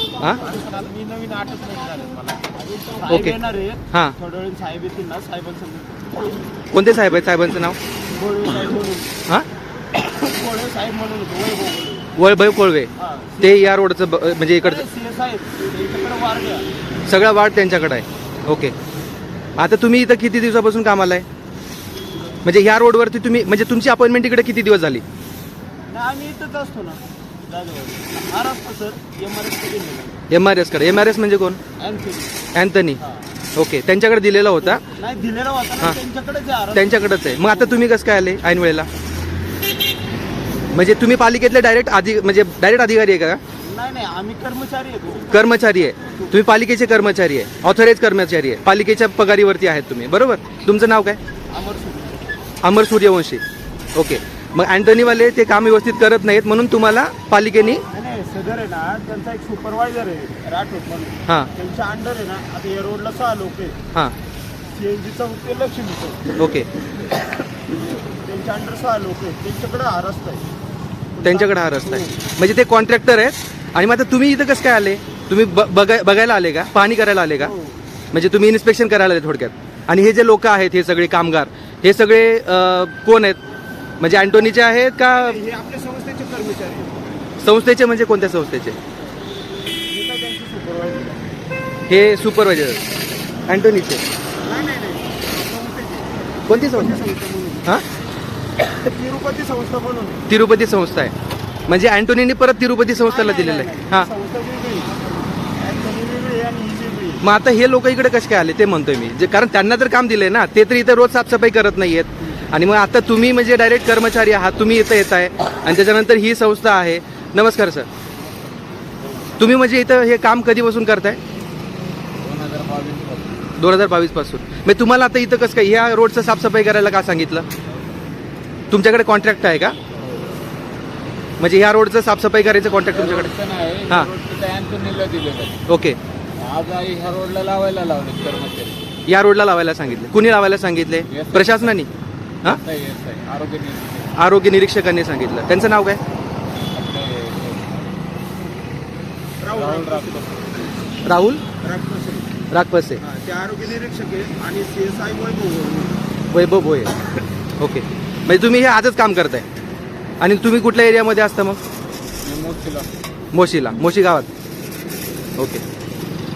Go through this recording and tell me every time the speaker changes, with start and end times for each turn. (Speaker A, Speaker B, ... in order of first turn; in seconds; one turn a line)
Speaker A: 0.3-6.4
Speaker B: 3.1-3.4
Speaker B: 6.7-7.8
Speaker A: 8.1-9.2
Speaker A: 10.2-12.1
Speaker B: 12.2-14.8
Speaker A: 13.0-13.7
Speaker A: 14.6-16.7
Speaker B: 17.1-18.7
Speaker B: 19.6-21.3
Speaker B: 22.4-25.0
Speaker A: 25.9-30.2
Speaker B: 30.3-31.6
Speaker A: 31.8-32.5
Speaker B: 32.5-33.0
Speaker A: 33.0-33.3
Speaker B: 33.6-34.9
Speaker A: 34.8-37.8
Speaker B: 36.7-38.9
Speaker B: 40.7-43.4
Speaker A: 43.6-45.4
Speaker B: 45.3-51.2
Speaker A: 51.5-52.4
Speaker B: 52.6-53.4
Speaker B: 54.0-57.8
Speaker A: 57.9-63.8
Speaker A: 64.7-66.3
Speaker B: 66.4-66.7
Speaker A: 67.7-70.5
Speaker A: 71.2-72.2
Speaker B: 71.2-77.5
Speaker A: 77.4-77.8
Speaker B: 78.1-83.4
Speaker B: 84.0-85.4
Speaker A: 85.1-87.2
Speaker B: 87.4-88.8
Speaker A: 89.9-91.3
Speaker B: 91.9-92.8
Speaker B: 93.5-94.0
Speaker A: 94.4-97.7
Speaker B: 96.5-97.0
Speaker A: 98.6-100.2
Speaker B: 100.3-101.1
Speaker B: 101.7-104.1
Speaker A: 103.0-104.9
Speaker A: 105.5-107.2
Speaker B: 107.2-117.9
Speaker B: 119.4-121.2
Speaker C: 122.2-123.5
Speaker B: 123.6-127.5
Speaker B: 128.7-129.8
Speaker B: 131.4-133.3
Speaker C: 132.9-135.6
Speaker B: 135.7-136.0
Speaker C: 136.4-138.9
Speaker B: 139.1-141.9
Speaker C: 141.1-141.9
Speaker C: 142.4-144.1
Speaker B: 144.2-146.0
Speaker C: 146.7-147.9
Speaker A: 149.4-150.7
Speaker C: 149.5-150.4
Speaker B: 151.0-151.4
Speaker A: 151.6-152.3
Speaker B: 152.5-153.0
Speaker A: 153.0-156.0
Speaker B: 156.3-156.9
Speaker B: 157.6-159.5
Speaker B: 160.2-161.6
Speaker C: 162.2-162.9
Speaker B: 163.3-164.3
Speaker B: 165.4-165.6